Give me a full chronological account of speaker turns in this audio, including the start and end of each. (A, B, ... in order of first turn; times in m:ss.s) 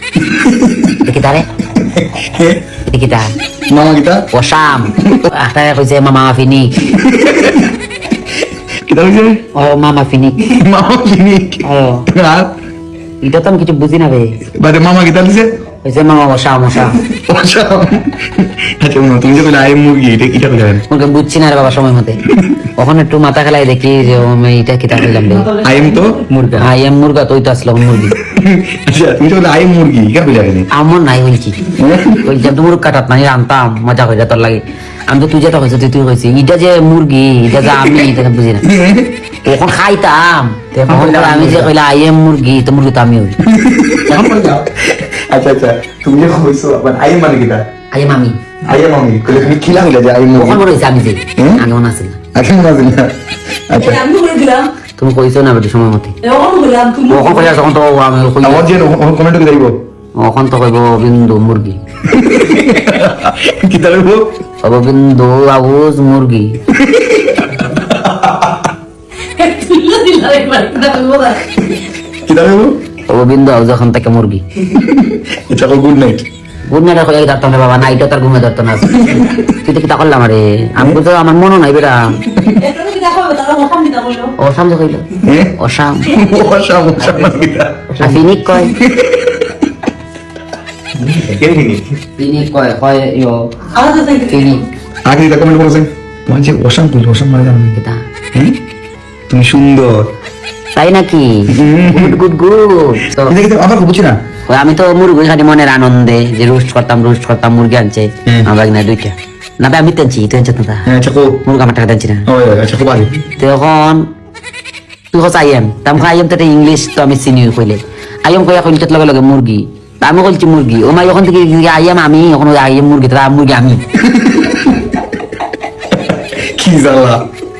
0:00.2-0:01.0 A
0:01.0-0:01.5 B
0:01.7-0:02.6 A
0:02.9-0:03.3 B
0:03.7-0:04.3 A
0:04.3-0:06.9 B
0:04.9-0:05.3 A
0:06.9-0:07.8 A
0:08.8-0:09.4 A
0:09.5-0:10.4 B
0:10.4-0:12.5 A
0:11.6-0:12.1 B
0:13.2-0:14.4 B
0:14.6-0:15.6 A
0:15.8-0:17.0 B
0:17.0-0:20.8 A
0:20.9-0:22.2 B
0:22.3-0:22.6 A
0:22.8-0:25.5 B
0:25.5-0:26.1 C
0:25.5-0:26.6 A
0:26.5-0:28.2 B
0:28.2-0:30.7 A
0:30.7-0:31.7 B
0:31.7-0:32.4 A
0:32.2-0:38.7 B
0:37.6-0:39.1 A
0:39.4-0:43.4 B
0:40.8-0:41.7 A
0:43.4-0:47.6 A
0:47.9-0:48.4 B
0:48.7-0:50.6 A
0:50.3-0:52.2 B
0:51.4-0:51.7 A
0:52.3-0:53.2 A
0:53.7-0:54.0 A
0:53.8-0:54.7 C
0:55.0-0:56.2 B
0:56.2-0:57.5 C
0:57.1-0:58.7 B
0:58.4-0:59.8 A
1:00.2-1:01.8 B
1:02.1-1:04.3 A
1:04.6-1:06.6 B
1:06.7-1:08.6 A
1:09.4-1:11.6 C
1:12.2-1:12.8 A
1:13.1-1:14.4 B
1:14.6-1:16.3 A
1:16.7-1:22.2 B
1:18.9-1:19.5 A
1:22.3-1:22.6 A
1:22.6-1:24.4 C
1:24.4-1:26.2 B
1:25.2-1:25.5 A
1:26.0-1:29.7 A
1:28.0-1:28.8 B
1:31.0-1:31.8 A
1:32.2-1:34.6 B
1:33.7-1:34.5 C
1:35.1-1:37.8 A
1:37.7-1:38.0 B
1:39.3-1:40.1 A
1:40.8-1:43.4 B
1:41.5-1:42.2 A
1:43.2-1:44.2 A
1:44.5-1:50.9 B
1:50.9-1:51.4 A
1:51.4-1:52.3 B
1:52.3-1:53.2 A
1:53.4-1:54.1 B
1:55.1-2:03.8 B
2:04.0-2:05.0 A
2:05.9-2:07.2 A